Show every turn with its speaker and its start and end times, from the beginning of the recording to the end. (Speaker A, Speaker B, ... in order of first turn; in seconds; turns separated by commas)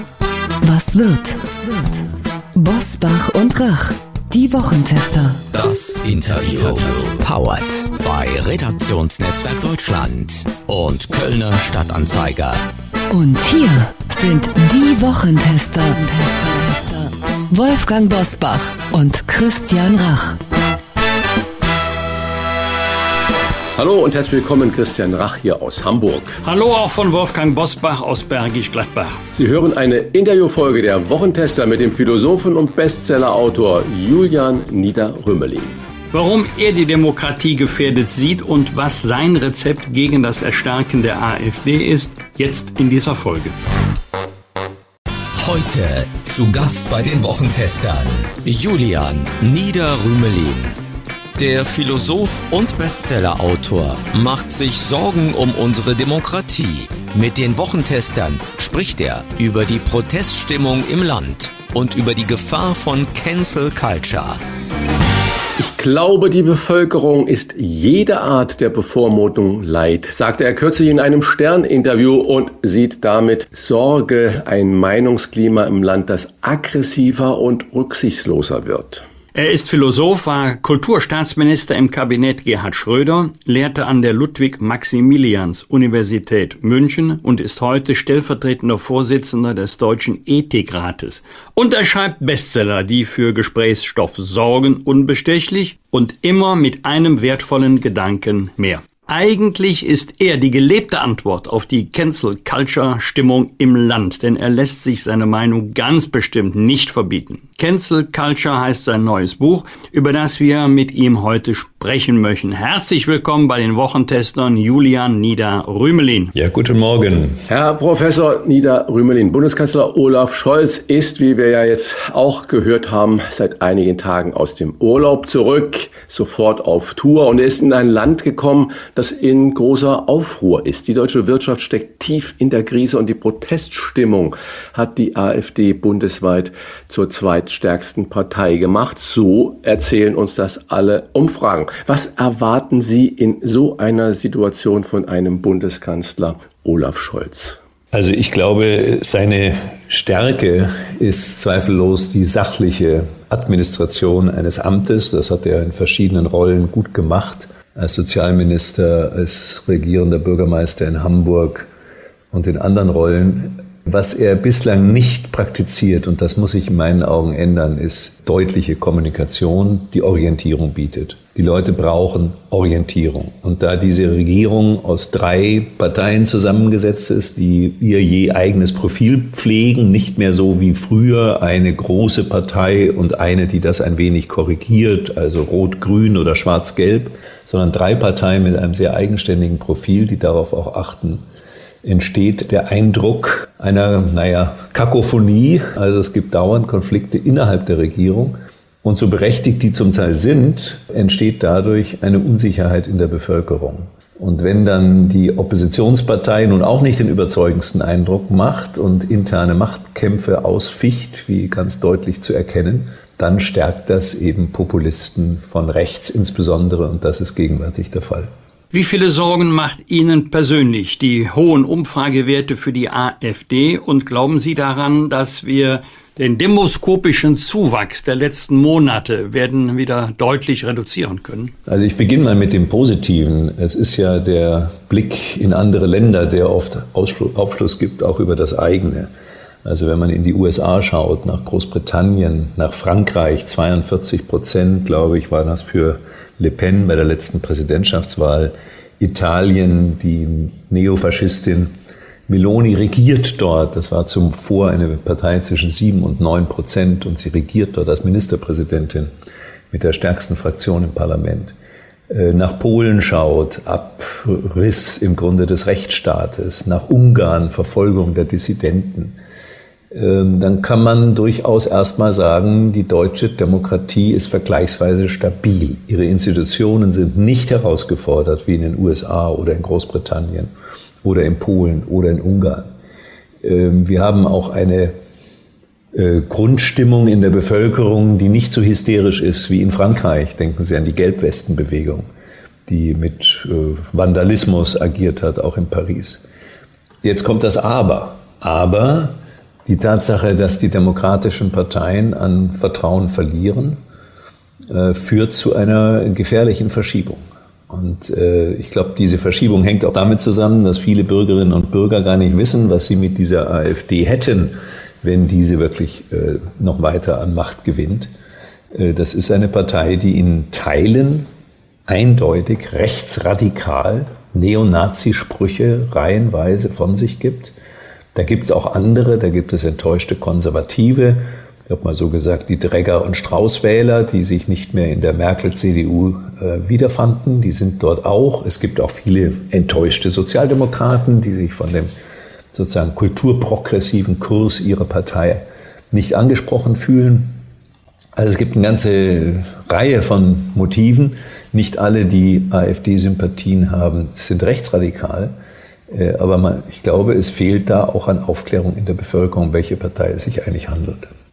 Speaker A: 0.6-5.5, Speaker B: 5.5-12.6, Speaker A: 13.1-20.4, Speaker C: 23.8-26.4, Speaker D: 26.4-29.2, Speaker C: 29.4-35.8, Speaker D: 36.1-43.5, Speaker B: 45.4-50.8, Speaker B: 51.4-64.4, Speaker C: 65.6-79.0, Speaker D: 79.3-116.3, Speaker E: 116.3-117.4, Speaker C: 117.5-147.6, Speaker E: 147.9-161.7, Speaker E: 162.3-191.2, Speaker E: 191.8-218.3, Speaker D: 218.7-231.5, Speaker E: 231.7-239.1, Speaker E: 239.6-251.7, Speaker E: 252.3-259.1, Speaker E: 259.7-261.5, Speaker E: 262.1-269.2, Speaker E: 269.9-280.5, Speaker E: 281.0-282.7, Speaker E: 283.4-285.0, Speaker E: 285.9-292.1, Speaker E: 292.7-296.2, Speaker E: 297.0-303.8, Speaker E: 304.7-318.1, Speaker E: 318.7-321.3, Speaker E: 321.9-327.5, Speaker E: 328.1-341.9, Speaker E: 342.5-347.4, Speaker E: 348.2-355.4, Speaker E: 355.9-361.1